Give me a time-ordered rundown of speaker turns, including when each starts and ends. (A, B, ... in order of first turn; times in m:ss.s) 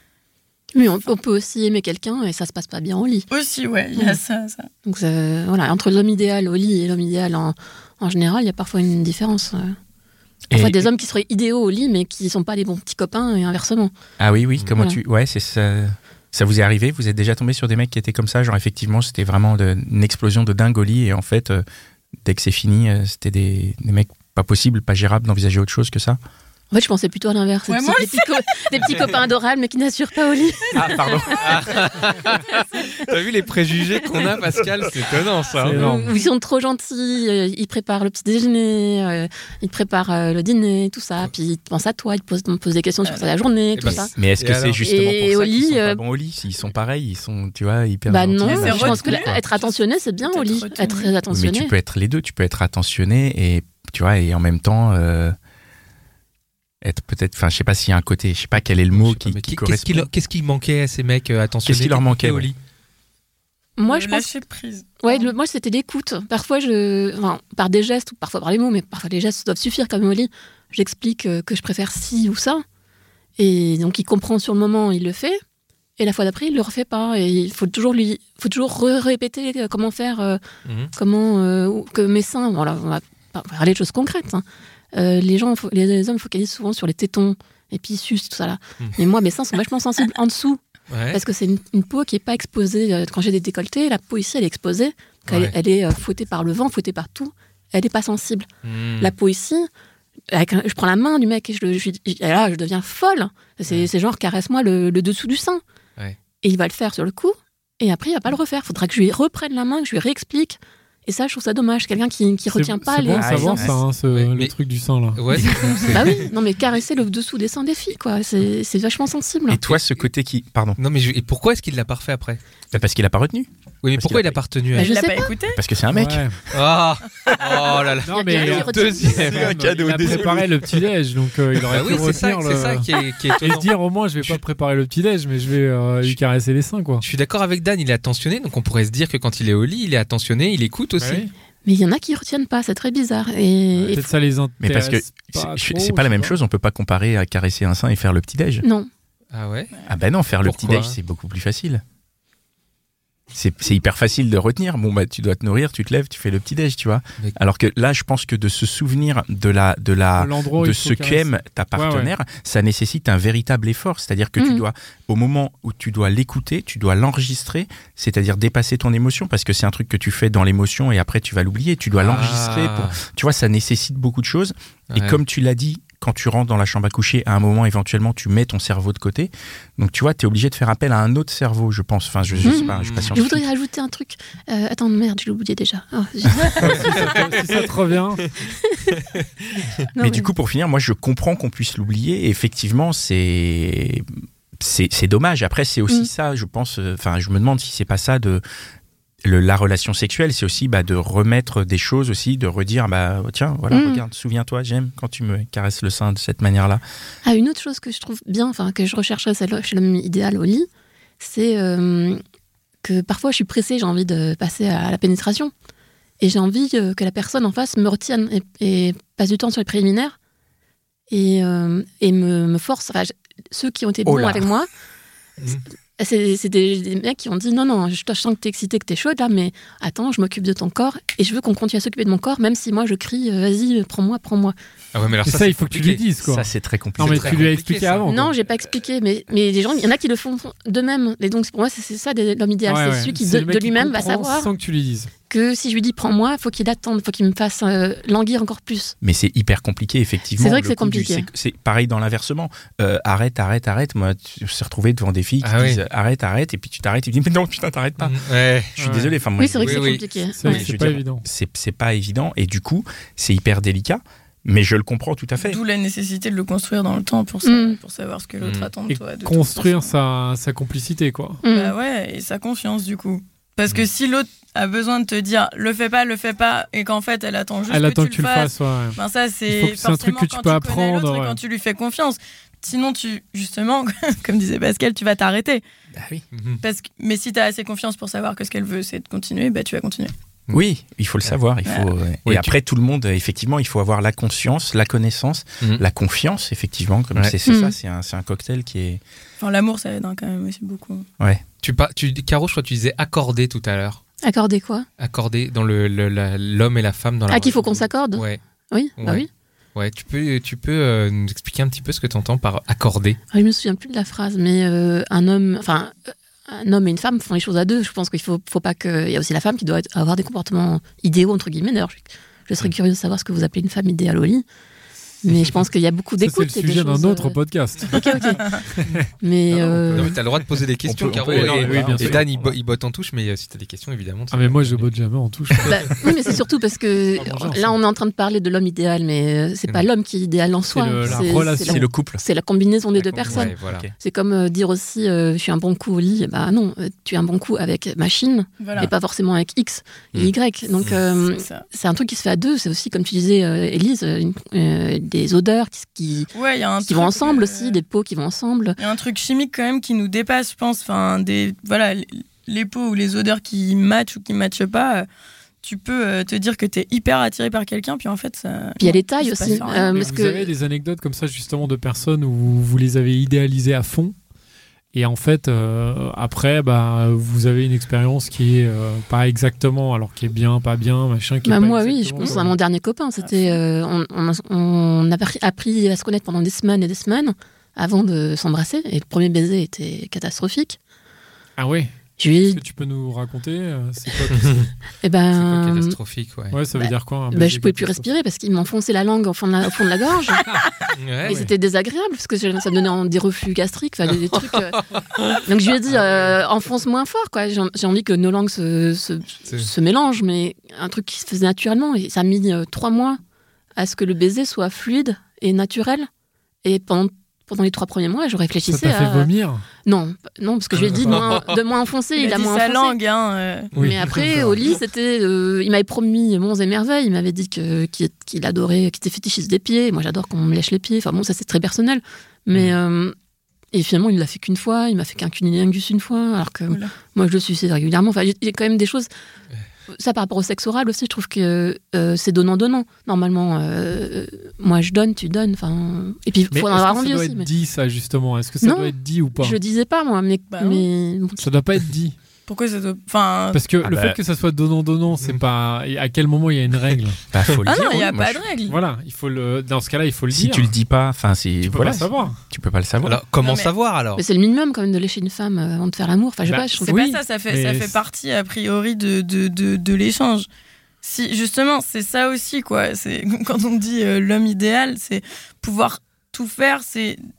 0:00.7-0:03.2 A
0:03.3-0:04.7 B
0:04.8-0:09.8 A
0:10.5-0:10.9 C
0:10.5-0:13.9 A
0:14.2-0:21.6 C
0:22.2-0:26.2 C
0:26.7-0:31.0 A
0:27.7-0:28.3 B
0:30.7-0:36.1 D
0:30.8-0:31.9 C
0:35.6-0:36.1 E
0:35.7-0:44.1 A
0:43.0-0:43.3 B
0:43.8-0:44.8 D
0:43.9-0:49.4 C
0:44.8-0:46.0 A
0:48.1-0:51.7 A
0:48.4-0:51.1 B
0:51.3-0:55.3 C
0:56.8-1:00.1 C
0:58.9-1:02.6 D
1:01.6-1:02.5 C
1:03.8-1:04.3 A
1:03.9-1:05.3 B
1:05.0-1:12.6 A
1:13.4-1:15.4 A
1:16.0-1:20.4 A
1:20.6-1:20.9 D
1:20.9-1:38.5 A
1:30.9-1:31.2 D
1:35.3-1:35.5 D
1:38.6-1:39.1 D
1:39.0-1:39.7 A
1:40.3-1:45.6 A
1:46.4-1:53.7 A
1:52.5-1:55.7 E
1:53.1-1:53.8 C
1:54.1-1:54.5 D
1:55.1-1:56.3 D
1:55.8-1:59.6 A
1:59.5-2:00.8 C
1:59.6-2:00.0 D
2:00.8-2:02.4 D
2:02.7-2:04.4 C
2:03.8-2:04.9 D
2:04.7-2:05.3 A
2:04.8-2:05.6 B
2:05.5-2:06.3 C
2:05.9-2:06.4 E
2:06.5-2:09.7 D
2:08.0-2:17.0 E
2:08.1-2:09.4 A
2:09.1-2:10.7 C
2:11.7-2:14.4 D
2:11.8-2:12.1 C
2:17.0-2:21.2 D
2:21.0-2:21.3 E
2:21.6-2:24.0 A
2:23.9-2:26.3 E
2:24.6-2:28.6 C
2:28.6-2:28.9 A
2:29.3-2:29.7 D
2:29.9-2:31.8 C
2:30.4-2:31.0 D
2:33.3-3:03.4 C
2:40.2-2:42.1 E
2:44.4-2:44.6 A
2:52.0-2:53.0 D
2:54.9-2:55.2 D
3:02.3-3:03.2 D
3:02.4-3:07.1 A
3:06.6-3:08.2 E
3:06.6-3:07.6 D
3:08.6-3:08.9 A
3:09.9-3:10.3 A
3:10.0-3:18.4 C
3:19.2-3:26.8 C
3:23.7-3:24.0 A
3:27.2-3:30.7 A
3:31.2-3:32.2 A
3:32.8-3:35.5 A
3:36.2-3:40.2 A
3:41.1-3:44.7 A
3:44.0-3:44.4 C
3:46.0-3:54.5 A
3:54.9-3:56.0 D
3:55.2-3:58.3 E
3:56.2-3:57.6 C
3:57.0-3:58.1 D
3:58.0-4:04.5 A
4:02.6-4:05.1 E
4:05.3-4:08.9 A
4:09.0-4:18.2 C
4:10.4-4:11.3 A
4:15.4-4:15.8 D
4:18.0-4:18.8 D
4:18.8-4:25.6 C
4:18.8-4:19.1 E
4:19.4-4:20.6 A
4:19.6-4:20.0 D
4:20.4-4:21.2 E
4:25.4-4:29.9 B
4:27.4-4:27.8 A
4:28.4-4:28.7 D
4:28.9-4:31.4 E
4:31.4-4:31.7 A
4:31.5-4:45.6 B
4:37.7-4:41.4 E
4:45.9-4:46.2 C
4:46.3-4:46.6 D
4:46.6-4:50.1 B
4:50.5-4:59.0 C
4:52.2-4:52.5 D
4:57.4-4:57.7 A
4:59.4-5:01.0 B
5:01.6-5:04.0 D
5:04.2-5:04.8 A
5:05.0-5:08.4 D
5:07.3-5:09.3 A
5:09.0-5:13.2 D
5:13.3-5:24.4 A
5:25.2-5:28.6 A
5:26.2-5:29.1 E
5:29.2-5:30.1 A
5:29.5-5:34.9 D
5:30.8-5:32.5 C
5:31.2-5:32.3 E
5:34.3-5:36.0 E
5:35.7-5:56.3 A
5:37.2-5:37.8 E
5:40.6-5:41.9 E
5:41.4-5:42.2 C
5:43.0-5:43.9 C
5:43.2-5:43.9 D
5:48.6-5:48.9 B
5:51.3-5:51.6 B
5:56.3-5:57.8 B
5:56.8-5:58.8 A
5:58.8-6:05.1 B
6:05.6-6:10.1 B
6:08.8-6:10.5 A
6:09.7-6:14.2 E
6:14.9-6:22.6 E
6:21.4-6:30.8 A
6:23.2-6:23.6 B
6:31.6-6:31.9 E
6:32.2-6:32.6 A
6:32.5-6:34.7 E
6:34.3-6:34.7 D
6:35.0-6:36.0 A
6:35.3-6:36.6 D
6:36.5-6:38.1 E
6:36.7-6:40.5 A
6:40.9-6:41.4 D
6:41.2-6:41.5 E
6:41.2-6:53.2 A
6:44.5-6:45.4 D
6:45.9-6:46.3 D
6:53.8-6:56.1 A
6:56.6-6:59.3 A
6:58.7-6:59.6 E
6:59.8-7:03.0 A
7:00.7-7:01.6 D
7:02.2-7:03.7 B
7:03.7-7:04.6 D
7:03.8-7:04.0 E
7:03.8-7:13.1 A
7:13.7-7:19.1 A
7:19.9-7:27.5 A
7:26.5-7:29.6 E
7:28.6-7:31.4 A
7:30.5-7:30.9 B
7:31.4-7:32.2 E
7:32.5-7:33.6 B
7:33.5-7:37.2 E
7:33.8-7:34.2 C
7:37.3-7:38.4 C
7:37.6-7:38.8 B
7:38.7-7:40.7 E
7:40.3-7:43.2 C
7:41.6-7:42.4 E
7:43.0-7:44.2 D
7:43.4-7:43.7 B
7:44.2-7:47.0 A
7:46.4-7:48.0 E
7:46.8-7:50.5 B
7:51.0-7:57.2 B